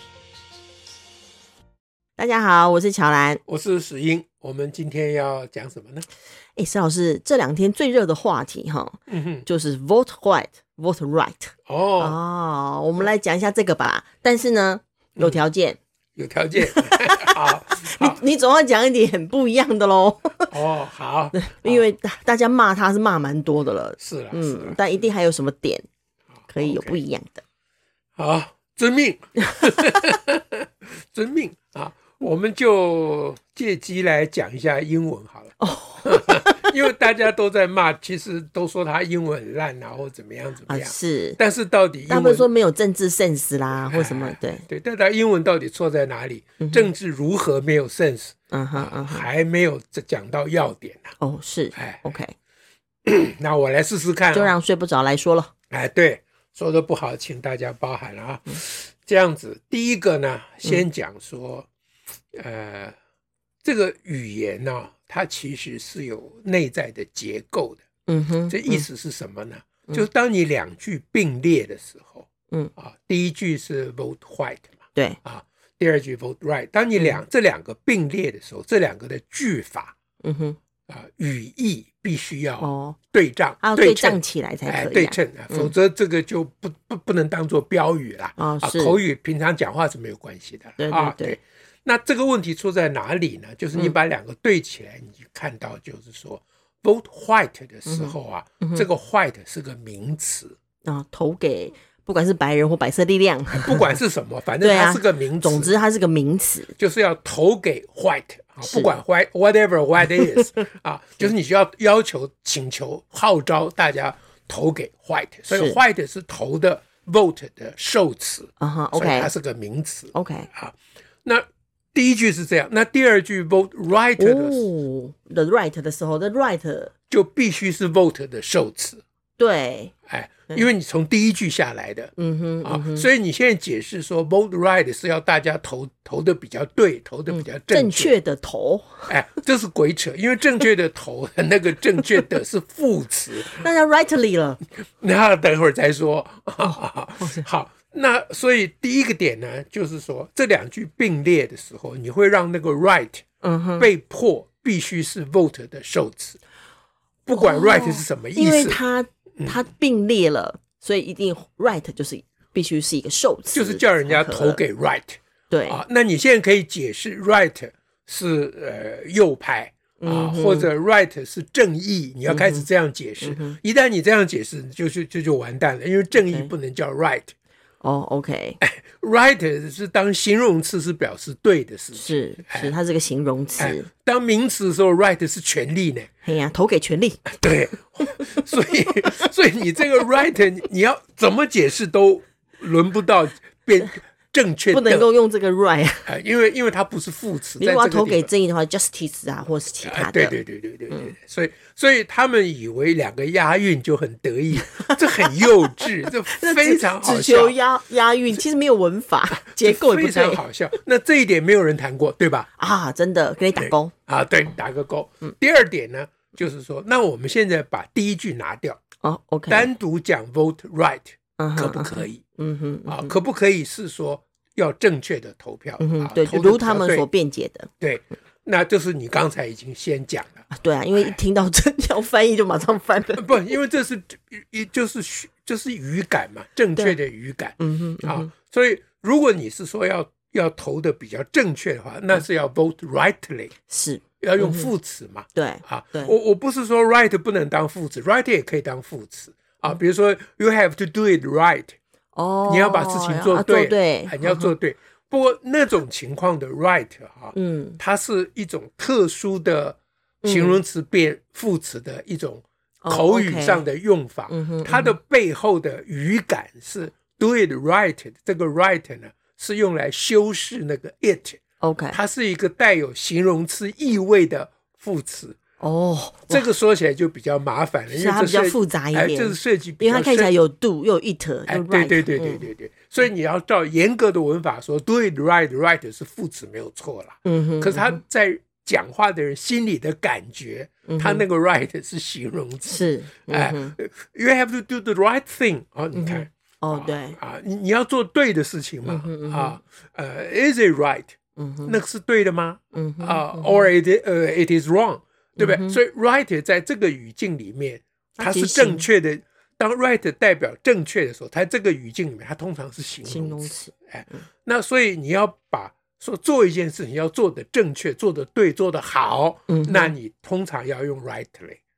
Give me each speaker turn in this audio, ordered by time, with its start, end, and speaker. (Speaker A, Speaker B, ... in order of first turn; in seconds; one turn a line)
Speaker A: 2.2-3.4
Speaker B: 3.5-6.0
Speaker A: 6.5-15.8
Speaker B: 9.1-9.4
Speaker B: 11.7-12.2
Speaker B: 16.2-18.2
Speaker A: 16.6-20.5
Speaker B: 20.5-21.8
Speaker A: 21.3-25.8
Speaker B: 24.0-25.0
Speaker B: 26.4-27.0
Speaker A: 26.5-27.4
Speaker B: 28.2-42.5
Speaker A: 35.6-36.7
Speaker A: 40.7-41.4
Speaker A: 42.1-44.6
Speaker B: 43.9-51.1
Speaker A: 46.6-46.9
Speaker A: 48.5-49.2
Speaker A: 51.2-52.3
Speaker B: 51.8-52.1
Speaker B: 53.0-54.5
Speaker A: 54.3-55.5
Speaker B: 55.7-61.7
Speaker B: 62.3-62.9
Speaker B: 63.6-67.8
Speaker A: 68.1-68.8
Speaker B: 68.5-74.7
Speaker B: 75.2-79.9
Speaker A: 77.0-77.2
Speaker A: 80.2-80.6
Speaker B: 80.9-100.5
Speaker A: 82.6-83.0
Speaker A: 83.6-85.7
Speaker A: 88.4-89.0
Speaker A: 90.8-91.4
Speaker A: 97.9-98.8
Speaker A: 100.8-103.9
Speaker B: 103.5-105.7
Speaker A: 104.6-106.7
Speaker B: 106.8-124.7
Speaker A: 108.6-108.9
Speaker A: 110.2-110.5
Speaker A: 115.5-115.8
Speaker A: 118.6-119.3
Speaker A: 120.1-120.5
Speaker A: 124.2-126.9
Speaker B: 127.1-129.0
Speaker A: 129.4-129.9
Speaker B: 130.1-138.1
Speaker A: 132.2-133.1
Speaker A: 137.3-139.1
Speaker B: 139.1-143.7
Speaker A: 143.4-144.6
Speaker B: 144.8-153.2
Speaker A: 146.6-147.4
Speaker A: 153.4-153.9
Speaker B: 153.8-156.4
Speaker B: 157.2-158.8
Speaker A: 157.4-164.6
Speaker B: 163.5-177.3
Speaker A: 165.5-165.8
Speaker A: 170.0-170.7
Speaker A: 172.2-172.7
Speaker A: 173.2-173.6
Speaker A: 176.1-176.5
Speaker A: 177.8-178.6
Speaker B: 178.6-182.7
Speaker A: 181.9-183.9
Speaker B: 183.6-186.1
Speaker A: 186.2-187.3
Speaker B: 187.3-195.1
Speaker A: 194.7-196.1
Speaker B: 196.1-198.3
Speaker A: 197.6-200.4
Speaker B: 199.8-207.6
Speaker A: 200.9-201.1
Speaker A: 204.6-210.4
Speaker B: 209.3-212.5
Speaker A: 212.6-213.9
Speaker B: 213.6-218.8
Speaker A: 219.0-219.7
Speaker B: 219.5-222.2
Speaker A: 221.4-223.1
Speaker B: 222.9-227.1
Speaker A: 225.8-227.7
Speaker B: 227.8-231.2
Speaker A: 230.5-233.3
Speaker B: 233.2-243.5
Speaker A: 237.6-238.3
Speaker A: 243.7-244.7
Speaker B: 244.2-251.8
Speaker A: 245.3-246.1
Speaker A: 252.1-254.5
Speaker B: 252.4-271.4
Speaker A: 257.3-257.8
Speaker A: 260.2-260.6
Speaker A: 262.8-263.6
Speaker A: 264.3-264.9
Speaker A: 271.6-272.0
Speaker B: 271.9-275.4
Speaker A: 275.6-276.5
Speaker B: 276.3-280.3
Speaker A: 277.9-282.5
Speaker B: 281.5-321.6
Speaker A: 287.2-288.0
Speaker A: 290.9-291.2
Speaker A: 292.6-293.8
Speaker A: 295.9-297.2
Speaker A: 298.8-299.6
Speaker A: 301.4-301.8
Speaker A: 302.7-303.7
Speaker A: 305.4-305.8
Speaker A: 308.2-308.9
Speaker A: 313.1-314.2
Speaker A: 319.5-319.9